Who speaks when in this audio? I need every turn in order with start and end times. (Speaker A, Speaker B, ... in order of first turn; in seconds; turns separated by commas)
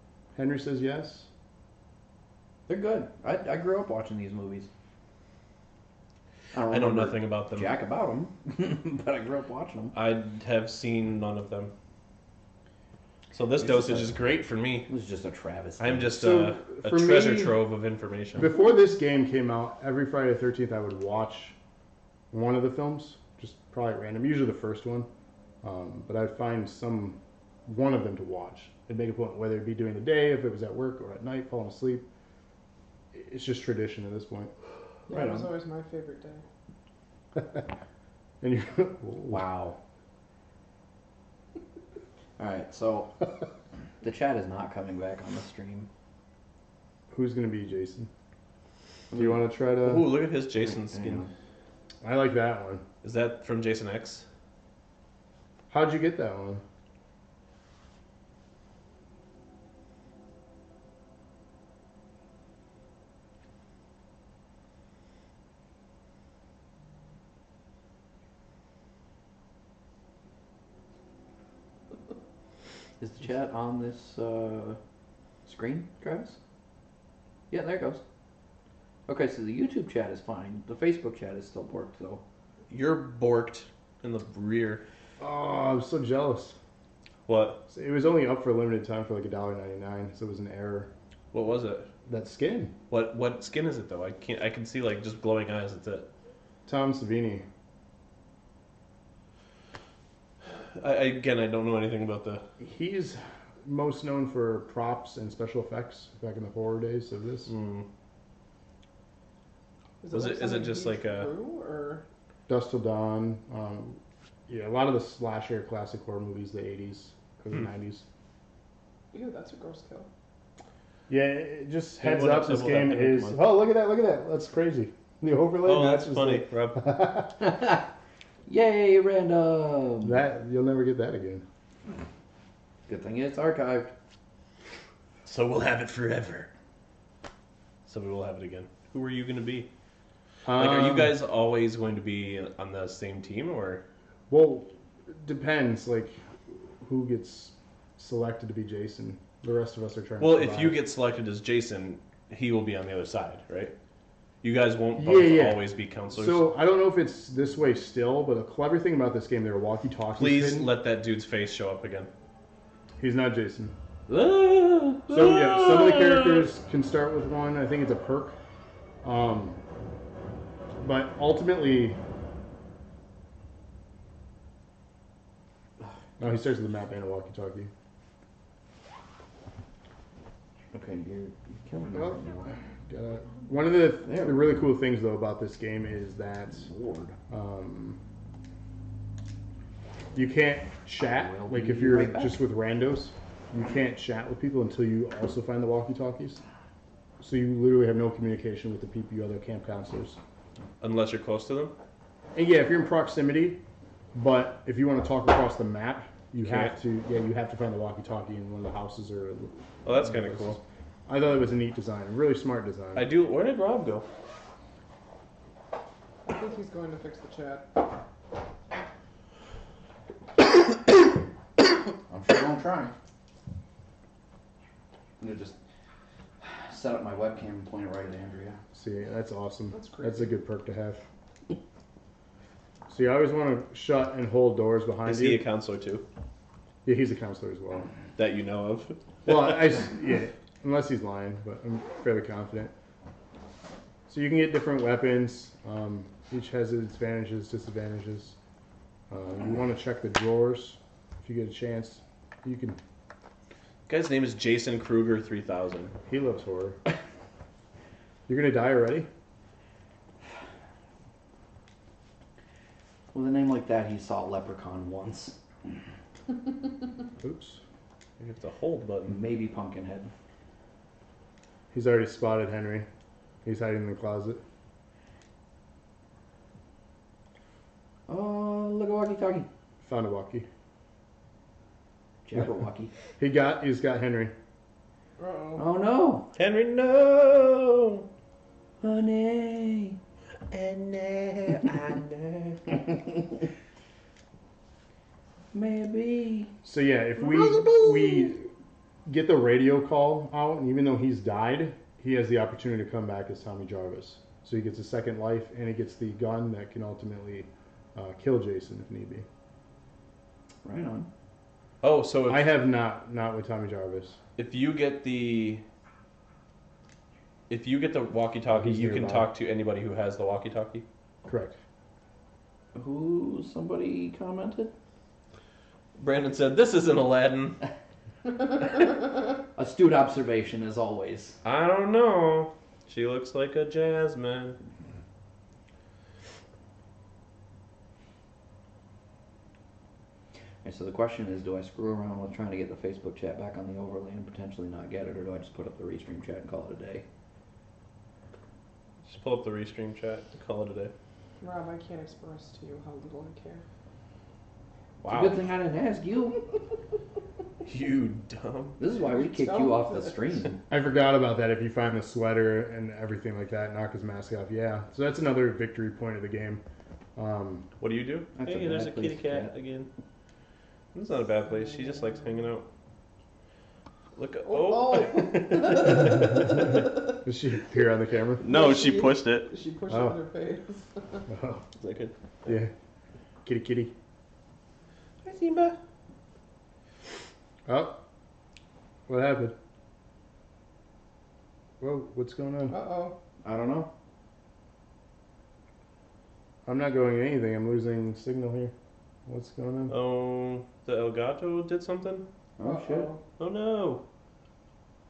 Speaker A: 0.3-1.3, Speaker B: 2.7-4.7, Speaker B: 6.5-9.9, Speaker C: 6.7-7.8, Speaker C: 9.9-11.7, Speaker C: 13.3-14.9, Speaker B: 13.6-14.2, Speaker B: 14.9-16.2, Speaker C: 15.8-18.5, Speaker A: 16.1-17.5, Speaker A: 18.4-21.6, Speaker A: 22.3-25.1, Speaker A: 25.6-32.1, Speaker A: 33.1-34.5, Speaker D: 35.1-36.4, Speaker B: 35.1-35.5, Speaker A: 37.4-37.6, Speaker A: 38.4-39.4, Speaker B: 39.3-39.8, Speaker B: 42.4-43.2, Speaker B: 44.0-45.9, Speaker A: 47.1-48.1, Speaker A: 49.1-50.1, Speaker C: 49.8-51.3, Speaker B: 50.6-51.3, Speaker A: 52.0-52.9, Speaker C: 53.0-54.3, Speaker A: 55.7-56.6, Speaker B: 73.0-74.8, Speaker B: 75.5-76.4, Speaker B: 77.5-78.0, Speaker B: 79.1-82.2, Speaker C: 82.7-84.8, Speaker A: 85.2-86.6, Speaker C: 87.3-87.6, Speaker A: 87.7-90.9, Speaker C: 91.3-91.9, Speaker A: 92.1-92.7, Speaker C: 92.9-96.1, Speaker A: 96.7-97.5, Speaker C: 100.5-102.4, Speaker A: 102.6-107.5, Speaker C: 107.5-107.9, Speaker D: 110.0-112.0, Speaker C: 110.1-111.3, Speaker A: 112.5-118.1, Speaker D: 119.1-120.1, Speaker A: 121.1-127.5, Speaker C: 122.0-123.4, Speaker C: 125.7-126.8, Speaker B: 127.4-127.8, Speaker B: 128.5-130.2, Speaker A: 130.0-131.4, Speaker B: 132.9-133.9, Speaker C: 135.2-136.5, Speaker C: 137.9-139.7, Speaker A: 140.5-141.2, Speaker C: 140.5-143.8, Speaker A: 144.3-150.8, Speaker C: 150.2-153.7, Speaker C: 154.4-156.5, Speaker A: 155.0-160.7, Speaker C: 160.2-162.1, Speaker A: 163.0-163.7, Speaker C: 164.1-166.5, Speaker A: 165.1-168.4, Speaker A: 169.0-169.6, Speaker A: 170.8-172.0, Speaker A: 176.2-177.7, Speaker B: 180.7-182.5, Speaker A: 181.9-186.7, Speaker B: 184.0-184.6, Speaker B: 186.6-187.2, Speaker A: 187.3-188.0, Speaker A: 190.1-196.4, Speaker B: 191.0-192.4, Speaker A: 197.2-200.2, Speaker C: 200.8-201.7, Speaker A: 202.3-203.6, Speaker A: 204.1-213.1, Speaker C: 206.4-206.8, Speaker C: 209.8-210.6, Speaker C: 212.9-214.1, Speaker D: 216.3-217.7, Speaker B: 222.1-222.9, Speaker B: 225.2-225.6, Speaker B: 226.4-228.6, Speaker A: 228.7-231.0, Speaker D: 229.7-230.3, Speaker A: 232.9-235.4, Speaker C: 235.1-236.1, Speaker A: 236.8-237.9, Speaker C: 238.2-239.8, Speaker A: 239.3-242.7, Speaker A: 244.1-248.4, Speaker A: 249.1-252.8, Speaker C: 253.9-255.9, Speaker A: 256.1-256.8, Speaker A: 258.3-259.1, Speaker B: 263.1-265.4, Speaker A: 267.2-267.6, Speaker C: 268.2-269.2, Speaker B: 269.1-270.1, Speaker A: 271.7-272.9, Speaker A: 273.4-274.4, Speaker B: 278.1-279.5, Speaker A: 279.8-280.5, Speaker B: 282.3-282.9, Speaker A: 283.2-284.3, Speaker D: 285.2-285.6, Speaker B: 285.6-286.3, Speaker C: 286.4-288.1, Speaker B: 288.8-290.0, Speaker C: 290.5-292.8, Speaker B: 295.5-296.5, Speaker A: 296.6-298.5, Speaker B: 297.3-298.3, Speaker A: 299.1-309.3, Speaker B: 310.6-311.1, Speaker C: 311.8-312.5, Speaker A: 312.3-314.2, Speaker C: 314.4-315.6, Speaker C: 317.5-320.9, Speaker A: 318.5-319.3, Speaker A: 321.2-321.6, Speaker B: 322.7-324.7, Speaker C: 326.0-327.6, Speaker B: 329.6-331.4, Speaker C: 331.4-334.6, Speaker B: 340.6-347.1, Speaker C: 349.0-350.9, Speaker D: 351.4-353.6, Speaker C: 355.0-355.4, Speaker B: 355.1-356.4, Speaker C: 357.7-358.8, Speaker B: 358.8-360.6, Speaker D: 358.9-360.3, Speaker A: 360.7-366.6, Speaker A: 367.2-367.7, Speaker C: 367.8-369.9, Speaker B: 368.4-369.5, Speaker C: 370.9-372.7, Speaker D: 371.7-372.2, Speaker C: 374.2-376.7, Speaker D: 374.5-377.0, Speaker A: 377.2-378.4, Speaker C: 378.4-379.5, Speaker D: 378.4-381.2, Speaker A: 379.9-380.2, Speaker A: 381.3-381.6, Speaker C: 381.8-382.5, Speaker A: 382.5-382.7, Speaker A: 383.4-383.9, Speaker C: 385.2-385.8, Speaker A: 387.7-388.0, Speaker A: 389.1-389.6, Speaker A: 391.8-392.8, Speaker D: 392.7-393.1, Speaker B: 393.4-393.9, Speaker A: 396.7-398.7, Speaker A: 399.3-399.9, Speaker C: 399.9-402.3, Speaker B: 402.6-403.1, Speaker D: 402.6-403.2, Speaker C: 403.4-404.0